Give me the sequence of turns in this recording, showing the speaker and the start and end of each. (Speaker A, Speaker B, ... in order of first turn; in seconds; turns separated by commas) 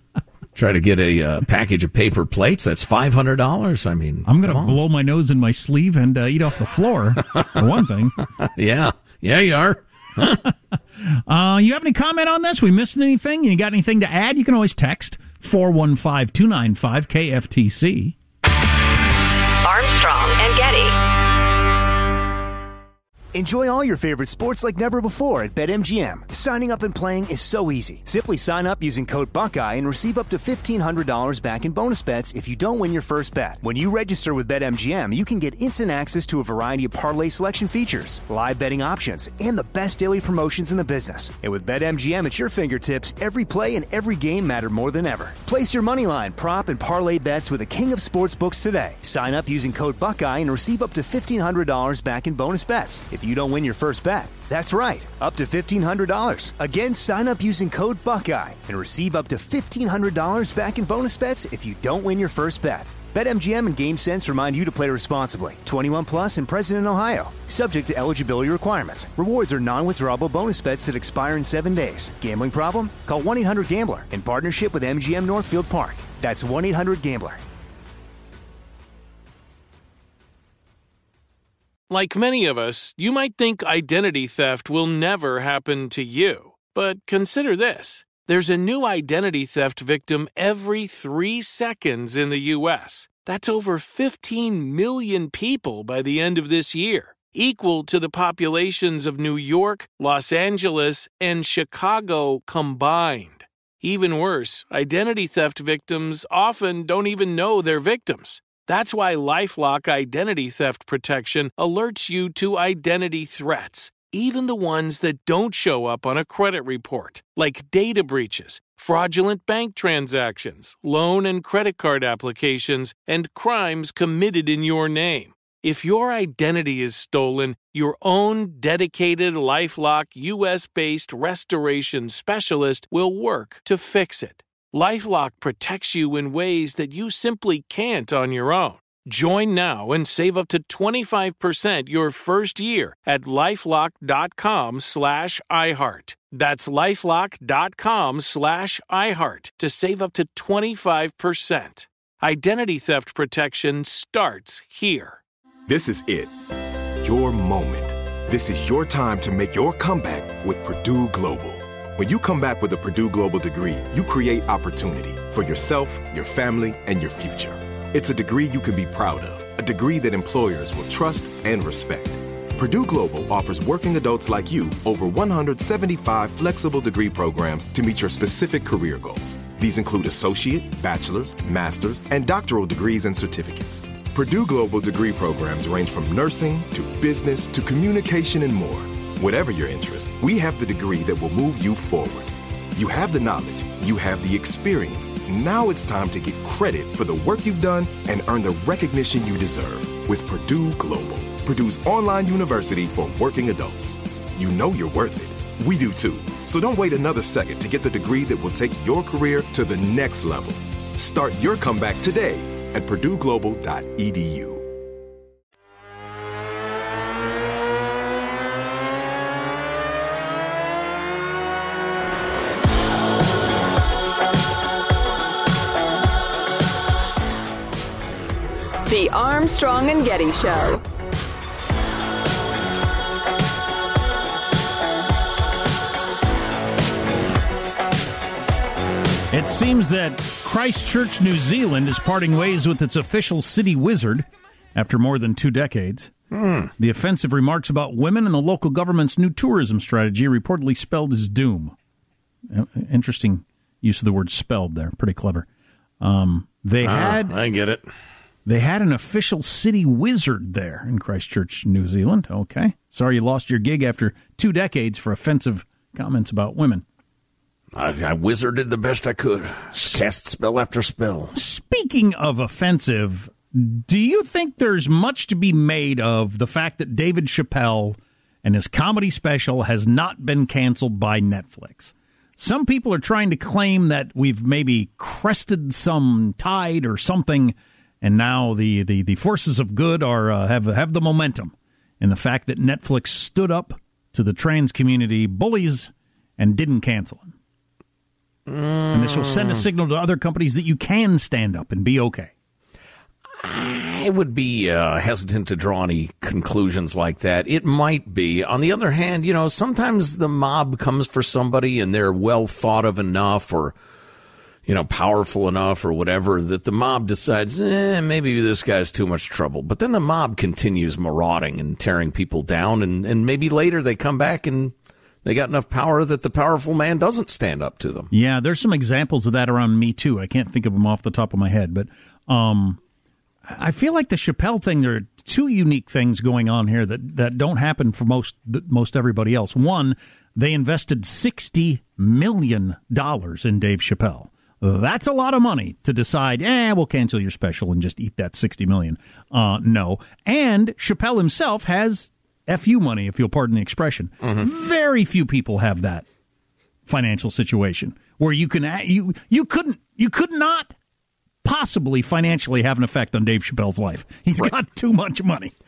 Speaker A: 0.6-4.8, Speaker B: 4.3-8.2, Speaker A: 8.4-10.4, Speaker B: 10.5-18.1, Speaker C: 19.6-21.0, Speaker D: 23.3-77.4, Speaker E: 81.9-155.2, Speaker F: 155.7-156.3, Speaker F: 157.0-214.7, Speaker C: 228.9-230.8, Speaker B: 239.3-246.1, Speaker A: 246.3-246.7, Speaker B: 246.8-251.8, Speaker B: 252.5-255.5, Speaker B: 256.0-257.4, Speaker A: 256.8-257.9, Speaker B: 258.5-266.8, Speaker A: 267.7-271.3, Speaker B: 269.8-270.0, Speaker B: 271.4-297.3, Speaker A: 298.5-299.6, Speaker B: 298.9-302.3, Speaker A: 303.4-313.8, Speaker A: 314.7-328.1, Speaker B: 328.1-332.8, Speaker B: 333.5-356.1, Speaker A: 354.2-354.5, Speaker B: 356.9-360.7, Speaker B: 361.4-365.5